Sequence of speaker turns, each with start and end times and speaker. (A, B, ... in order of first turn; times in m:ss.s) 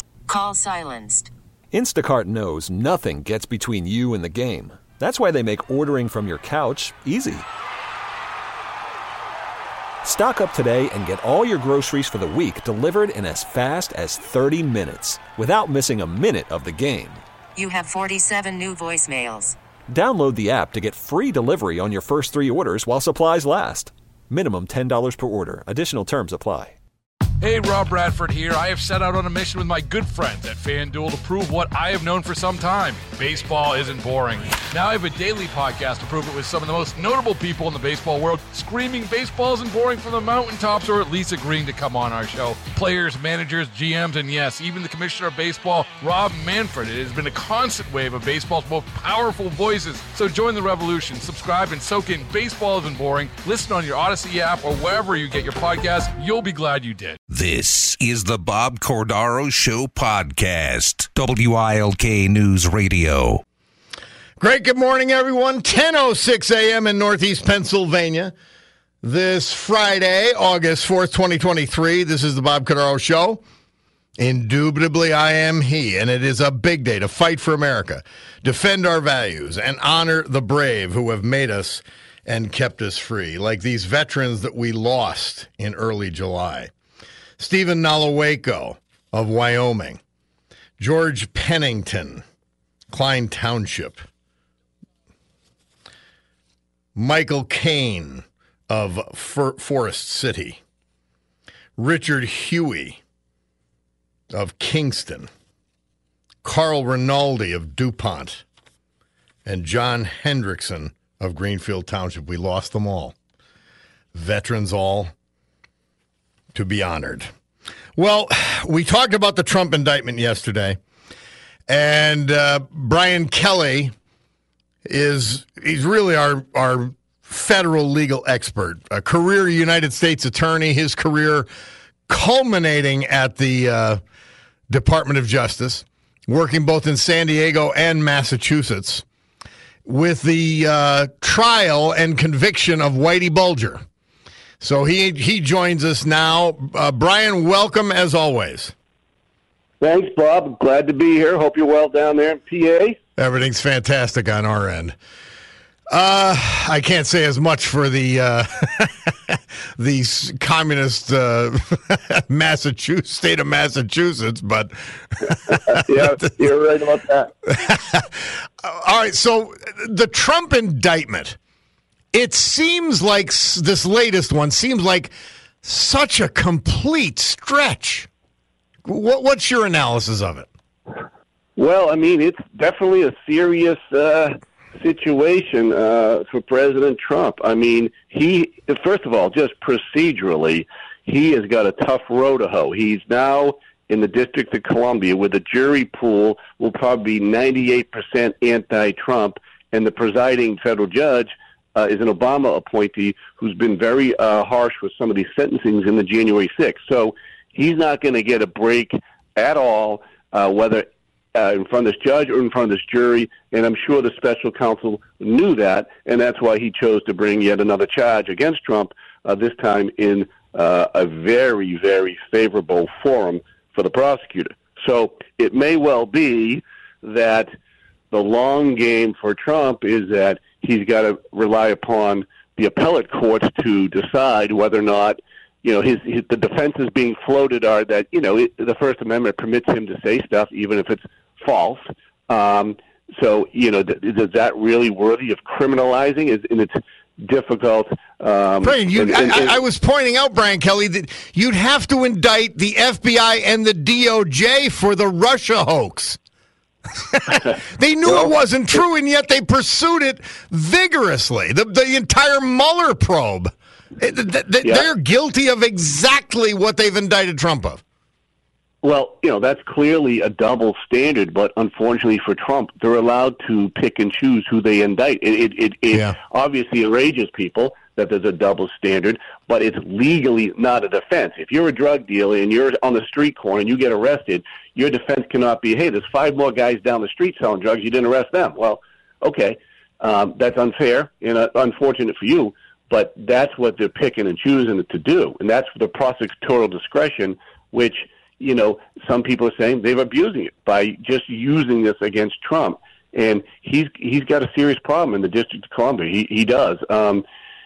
0:00.3-0:01.3 A
0:01.7-0:07.5 B
0:10.0-0:17.2 B
0:17.6-0:19.6 A
0:19.9-0:26.8 B
0:27.4-0:57.2 C
0:57.3-1:03.4 D
1:04.4-1:08.3 E
1:09.0-1:13.4 E
1:14.2-1:26.7 E
1:27.4-1:30.0 E
1:30.8-1:32.2 E
1:32.9-1:34.0 E
1:37.0-1:40.6 E
1:41.8-1:43.0 E
1:44.3-1:45.3 E
1:46.4-1:48.4 E
1:49.4-1:53.2 E
1:54.1-1:55.1 E
1:56.5-1:57.3 E
1:58.0-2:00.8 E
2:01.7-2:03.9 E
2:04.9-2:11.5 E
2:12.1-2:14.0 E
2:14.7-2:19.0 E
2:19.9-2:23.8 E
2:24.6-2:28.7 E
2:29.8-2:33.0 F
2:33.2-2:35.0 E
2:35.9-2:45.8 E
2:45.5-2:47.3 F
2:47.5-2:51.4 E
2:52.1-2:58.1 E
2:58.8-3:00.5 E
3:01.6-3:47.5 F
3:48.1-4:09.6 F
4:08.6-4:16.2 E
4:17.1-4:27.8 E
4:28.8-5:07.2 F
4:35.9-4:36.2 E